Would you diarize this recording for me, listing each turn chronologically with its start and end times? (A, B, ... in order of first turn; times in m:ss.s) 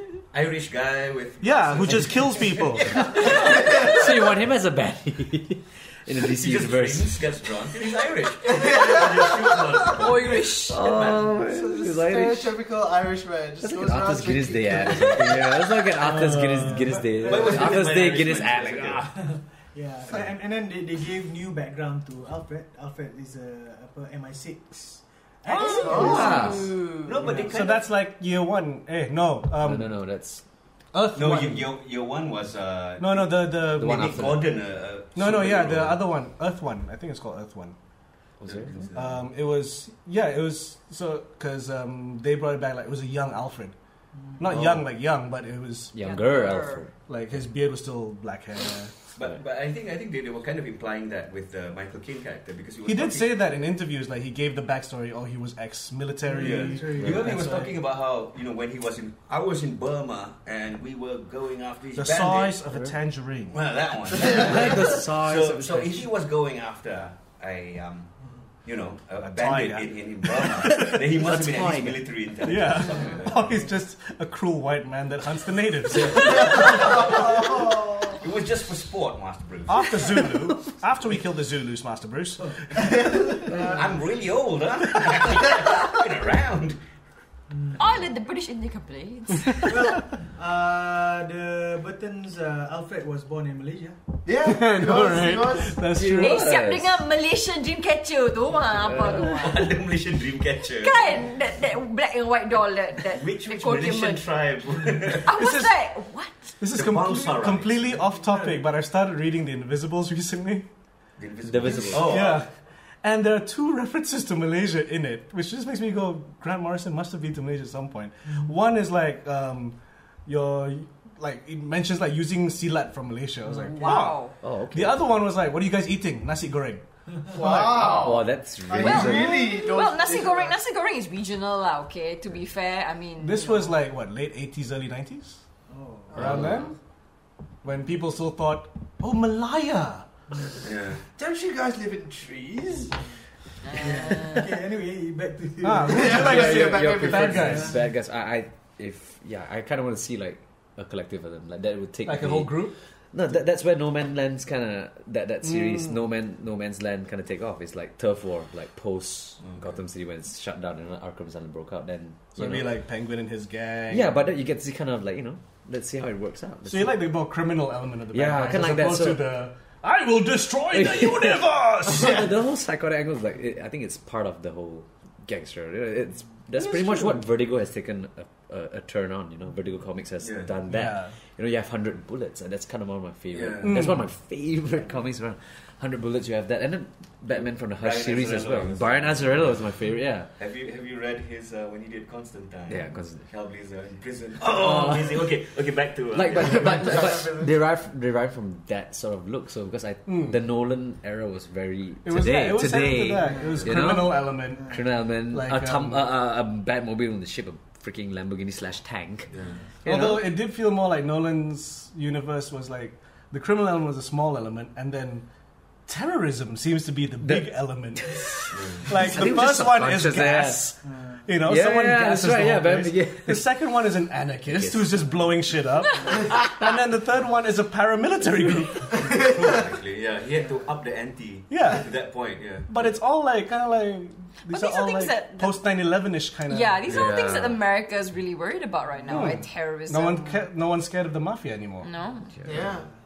0:00.3-0:04.0 A
0:01.4-0:03.0 B
0:03.2-0:07.2 C
0:03.2-0:04.3 D
0:06.2-0:11.3 A
0:08.4-0:10.1 D
0:10.0-0:11.1 E
0:10.7-0:12.5 C
0:11.4-0:15.6 D
0:13.6-0:19.3 C
0:16.0-0:16.8 B
0:16.6-0:17.8 F
0:17.2-0:19.0 A
0:19.3-0:26.1 F
0:25.5-0:26.3 B
0:25.6-0:26.7 D
0:25.6-0:27.2 E
0:26.0-0:26.7 C
0:26.0-0:27.8 A
0:27.2-0:27.6 F
0:27.5-0:29.9 B
0:29.6-0:30.4 C
0:30.9-0:31.8 B
0:31.1-0:36.0 A
0:33.0-0:34.5 B
0:33.7-0:34.6 C
0:35.1-0:37.8 B
0:38.4-0:38.9 C
0:38.4-0:39.2 A
0:38.9-0:43.7 B
0:44.4-0:46.2 B
0:44.5-0:44.9 C
0:45.9-0:46.9 C
0:46.0-0:46.9 E
0:47.1-0:48.9 B
0:49.1-0:53.4 A
0:52.8-0:57.8 B
0:56.2-0:57.6 F
0:56.4-1:02.6 A
1:02.0-1:03.6 B
1:03.5-1:08.1 A
1:04.1-1:06.1 C
1:08.6-1:13.4 A
1:09.2-1:11.2 B
1:10.7-1:12.1 C
1:12.4-1:17.1 B
1:16.0-1:17.5 A
1:16.0-1:16.8 C
1:16.4-1:18.2 D
1:18.0-1:20.1 A
1:19.6-1:22.8 B
1:22.4-1:22.9 F
1:22.8-1:23.7 D
1:23.4-1:26.8 A
1:27.5-1:27.8 F
1:27.8-1:29.8 E
1:29.6-1:34.0 F
1:34.2-1:35.8 D
1:34.4-1:36.5 B
1:35.9-1:37.0 C
1:36.1-1:39.8 E
1:38.8-1:39.3 C
1:39.2-1:41.3 A
1:40.8-1:44.2 E
1:43.1-1:45.4 A
1:45.2-1:46.3 E
1:45.3-1:45.7 B
1:46.6-1:50.7 B
1:46.7-1:47.8 A
1:48.0-1:48.6 F
1:51.2-1:52.4 A
1:51.4-1:52.2 C
1:51.9-1:52.5 B
1:53.0-2:08.0 B
2:03.5-2:04.0 F
2:03.7-2:04.3 E
2:04.4-2:05.0 C
2:07.3-2:10.6 D
2:07.8-2:08.1 E
2:07.9-2:09.4 C
2:08.7-2:13.7 E
2:13.2-2:15.4 B
2:15.7-2:16.3 F
2:16.1-2:16.7 B
2:16.2-2:16.6 C
2:17.6-2:20.0 B
2:20.6-2:21.0 A
2:21.2-2:23.0 D
2:23.6-2:24.4 E
2:23.7-2:26.2 F
2:25.6-2:27.8 B
2:25.8-2:27.6 D
2:26.1-2:42.7 C
2:27.5-2:27.7 F
2:32.0-2:32.8 B
2:35.4-2:36.0 B
2:39.4-2:39.8 A
2:42.3-2:44.2 B
2:43.9-2:47.0 C
2:46.6-2:52.3 B
2:48.1-2:49.2 C
2:50.7-3:10.3 C
2:56.5-2:57.3 B
3:00.2-3:00.5 A
3:00.7-3:01.2 B
3:03.3-3:03.9 A
3:03.6-3:04.1 B
3:07.4-3:09.7 A
3:10.4-3:17.1 A
3:12.7-3:13.3 C
3:14.4-3:15.3 C
3:16.1-3:30.3 C
3:16.4-3:17.5 D
3:20.1-3:20.4 B
3:22.0-3:26.1 B
3:23.2-3:23.6 F
3:29.3-3:29.6 A
3:29.8-3:35.2 B
3:35.9-3:49.1 B
3:37.2-3:40.6 C
3:38.5-3:39.0 A
3:40.8-3:41.2 F
3:41.4-3:43.4 C
3:44.5-3:44.9 C
3:49.0-3:49.5 D
3:49.1-3:52.7 A
3:51.5-3:52.0 B
3:52.7-3:57.2 B
3:54.5-3:55.6 E
3:56.5-4:00.4 E
3:56.9-3:57.6 C
3:59.1-4:01.9 B
4:01.8-4:02.3 E
4:02.4-4:02.9 D